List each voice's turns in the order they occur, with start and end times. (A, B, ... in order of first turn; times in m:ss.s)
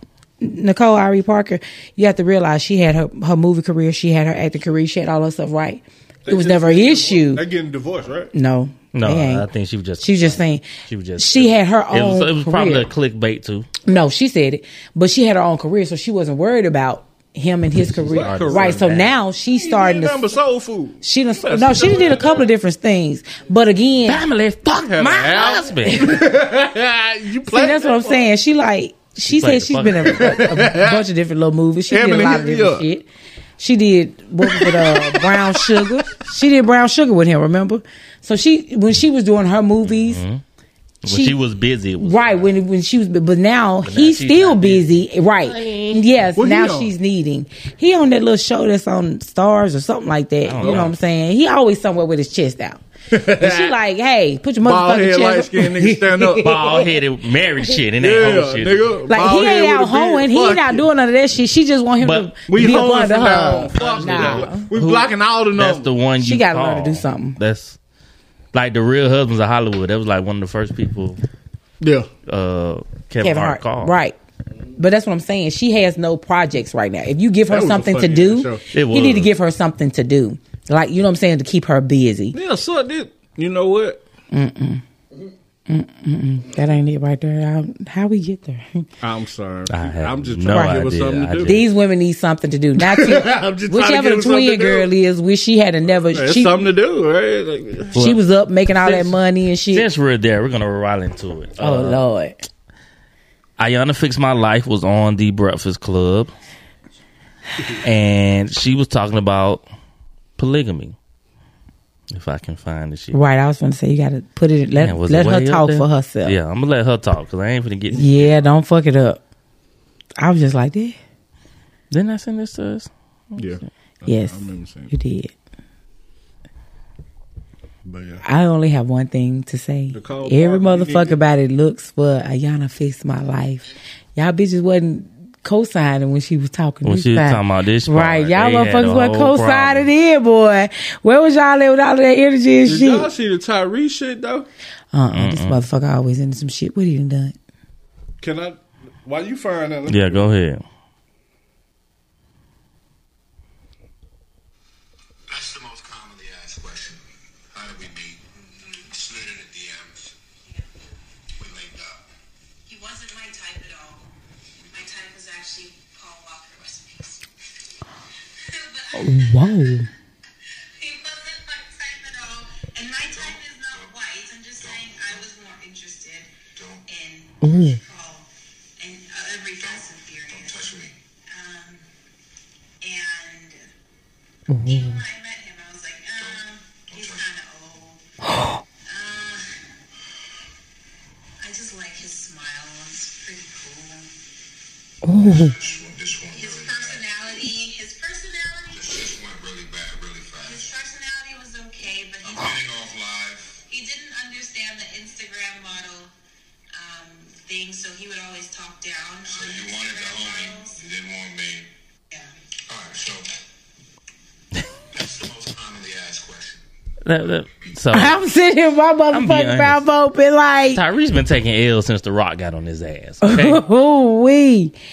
0:00.4-0:07.4 A
0:06.3-0:08.3 B
0:08.3-0:09.5 A
0:08.9-0:13.7 C
0:10.0-0:10.7 A
0:11.2-0:12.9 A
0:13.9-0:20.3 A
0:17.8-0:19.2 C
0:18.0-0:18.9 B
0:19.5-0:22.5 B
0:21.0-0:24.2 A
0:24.1-0:26.1 C
0:24.8-0:28.3 B
0:25.9-0:26.2 A
0:27.5-0:33.1 A
0:29.3-0:30.5 C
0:29.9-0:31.0 B
0:31.9-0:32.9 B
0:33.6-0:40.2 A
0:34.4-0:36.1 B
0:39.8-0:40.4 C
0:41.0-0:42.5 C
0:41.1-0:41.4 A
0:42.0-0:52.8 A
0:43.8-0:44.9 C
0:45.5-0:46.0 C
0:46.4-0:46.9 B
0:50.5-0:50.9 C
0:50.6-0:50.9 B
0:53.1-0:53.8 B
0:53.4-0:56.9 A
0:54.6-0:56.9 B
0:56.4-0:58.9 C
0:58.0-1:00.9 B
0:59.1-1:04.7 A
1:02.0-1:02.3 C
1:02.5-1:05.9 B
1:03.8-1:07.8 C
1:06.2-1:07.4 A
1:08.5-1:11.2 C
1:11.8-1:12.1 B
1:12.3-1:14.0 C
1:13.2-1:14.2 A
1:14.8-1:22.4 A
1:17.5-1:18.6 B
1:18.7-1:19.3 C
1:22.3-1:24.0 B
1:24.3-1:24.8 A
1:25.7-1:28.9 A
1:29.0-1:31.6 B
1:29.7-1:31.7 C
1:30.5-1:30.8 A
1:31.5-1:36.6 A
1:32.8-1:34.9 B
1:36.1-1:38.0 B
1:38.0-1:39.9 A
1:39.7-1:42.0 C
1:41.6-1:42.4 A
1:43.6-1:46.3 C
1:47.8-1:49.6 C
1:50.4-1:51.0 C
1:52.1-1:53.2 C
1:53.1-1:56.4 A
1:54.8-1:58.3 C
1:57.9-1:59.2 A
2:00.2-2:01.0 A
2:01.9-2:03.4 C
2:03.4-2:04.9 B
2:04.1-2:05.3 A
2:07.8-2:08.2 B
2:08.2-2:23.1 A
2:09.9-2:11.2 B
2:16.8-2:19.9 C
2:22.6-2:24.5 B
2:24.9-2:27.4 A
2:25.1-2:25.6 C
2:28.2-2:30.3 B
2:29.9-2:30.6 C
2:35.3-2:38.2 D
2:38.9-2:40.1 D
2:41.4-2:42.0 D
2:42.7-2:44.0 E
2:44.7-2:47.2 E
2:48.5-2:49.6 E
2:49.0-2:49.9 A
2:50.8-2:56.3 E
2:53.1-2:54.0 D
2:54.6-2:55.3 D
2:56.5-2:56.8 D
2:56.9-2:58.3 E
2:57.4-2:57.8 A
2:58.8-3:00.5 E
2:59.6-3:01.0 D
3:01.3-3:01.8 E
3:02.8-3:03.6 E
3:04.5-3:05.0 A
3:04.7-3:08.0 E
3:06.2-3:07.3 D
3:08.9-3:09.5 E
3:11.4-3:14.1 E
3:15.0-3:15.5 A
3:15.2-3:17.1 D
3:15.2-3:18.8 E
3:18.7-3:20.7 D
3:20.5-3:22.3 E
3:22.2-3:23.6 D
3:23.7-3:26.1 E
3:26.7-3:30.8 E
3:29.2-3:31.7 D
3:32.7-3:33.3 D
3:35.0-3:36.6 D
3:37.0-3:38.2 C
3:37.9-3:40.8 A
3:39.1-3:39.8 C
3:40.7-3:43.6 C
3:43.2-3:44.7 A